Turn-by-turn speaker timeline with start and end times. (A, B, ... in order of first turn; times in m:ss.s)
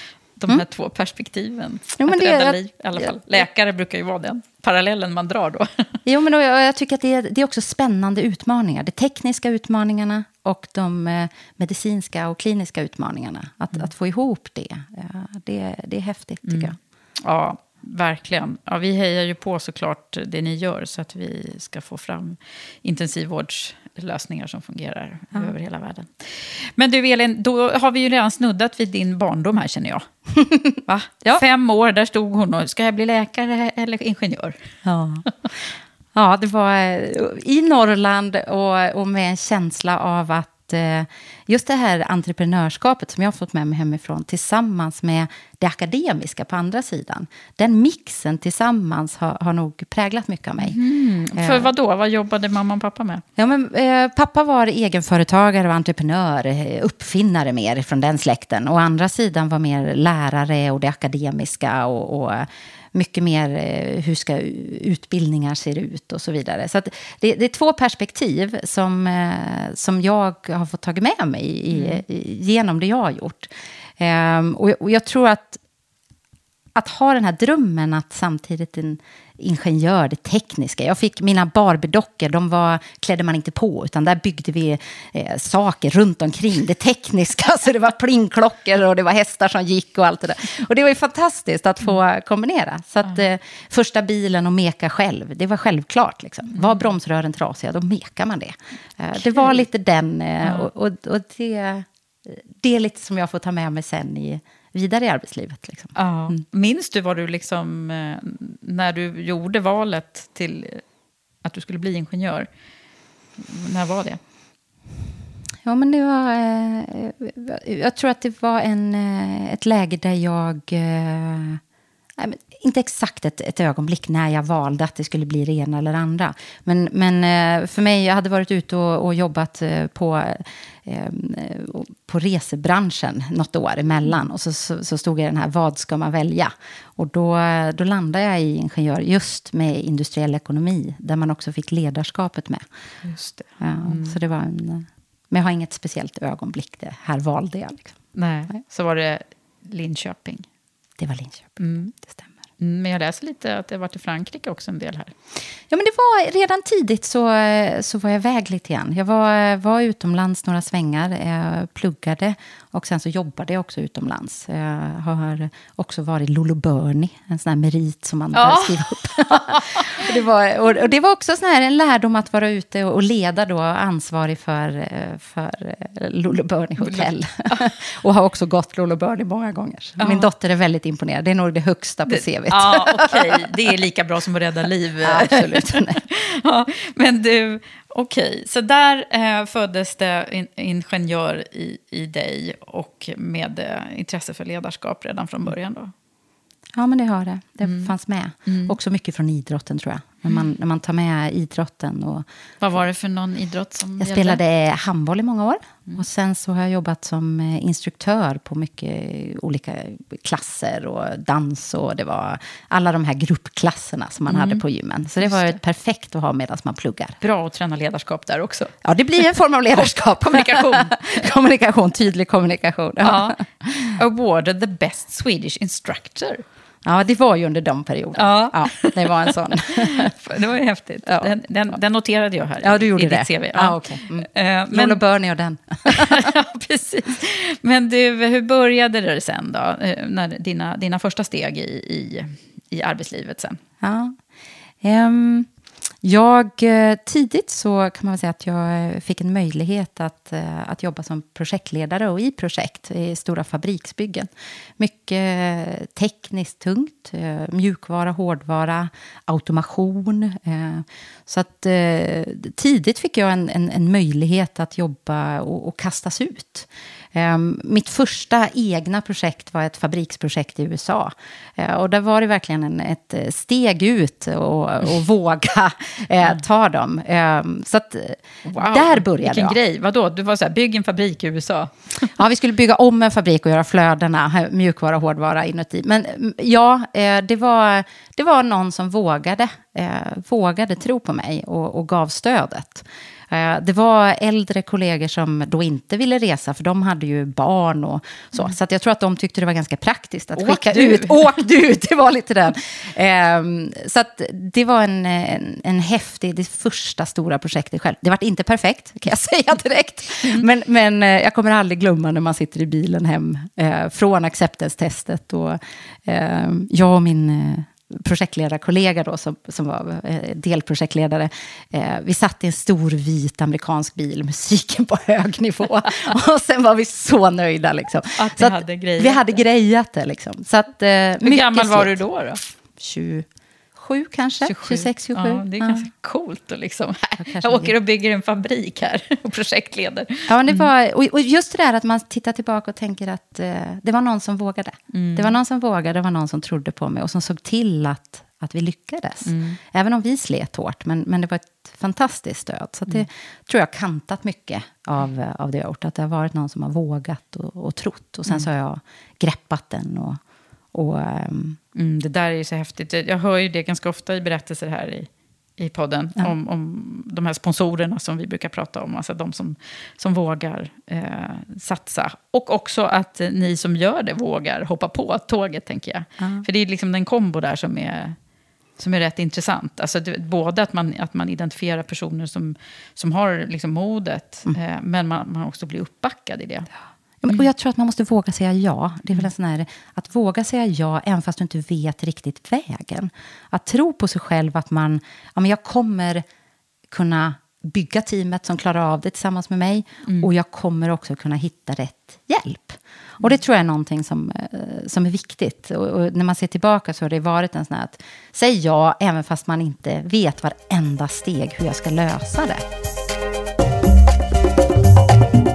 0:00.4-0:05.9 A
0:02.0-0:03.4 B
0:06.0-0:16.8 B
0:16.5-0:30.1 A
0:30.4-0:31.4 B
0:30.9-0:34.6 A
0:34.8-0:35.3 B
0:36.1-0:50.8 B
0:50.6-0:53.2 A
0:51.4-0:51.7 B
0:53.4-1:15.6 B
1:11.7-1:12.0 A
1:16.8-1:46.4 B
1:36.5-1:36.8 A
1:39.2-1:39.6 A
1:40.4-1:40.7 A
1:46.0-1:50.8 A
1:51.4-1:52.5 A
1:53.4-1:54.2 A
1:55.6-2:01.6 B
2:02.2-2:22.6 B
2:23.0-2:24.2 A
2:23.6-2:28.0 B
2:28.2-2:30.5 A
2:31.0-2:32.3 B
2:31.6-2:31.9 A
2:32.6-2:35.1 A
2:35.7-3:03.4 B
2:48.3-2:50.1 A
2:56.8-2:57.7 A
3:00.0-3:00.3 A
3:02.1-3:15.9 A
3:05.0-3:06.0 B
3:16.7-3:22.3 B
3:17.6-3:17.9 A
3:18.5-3:18.8 A
3:22.6-3:24.4 A
3:24.0-3:37.2 B
3:34.3-3:34.6 A
3:35.2-3:35.6 A
3:37.2-3:38.7 A
3:38.8-3:44.0 B
3:39.8-3:41.3 A
3:43.0-3:46.4 A
3:46.8-3:50.1 B
3:48.2-3:55.0 A
3:51.1-3:51.3 B
3:52.6-3:56.3 B
3:55.9-4:03.6 A
4:03.8-4:04.2 B
4:04.8-4:05.5 B
4:06.0-4:39.6 B
4:38.4-4:42.1 A
4:42.2-5:32.0 B
5:00.4-5:01.3 A
5:28.2-5:29.4 A
5:31.2-5:32.4 A
5:32.8-5:35.9 B
5:34.4-5:40.7 A
5:37.2-5:37.7 B
5:40.3-6:00.2 B
5:44.9-5:45.4 A
5:49.2-5:49.6 A
6:00.7-6:01.6 B
6:01.8-6:18.2 A
6:16.2-6:16.4 B
6:18.8-6:26.7 A
6:27.2-6:36.2 B
6:36.9-6:52.6 B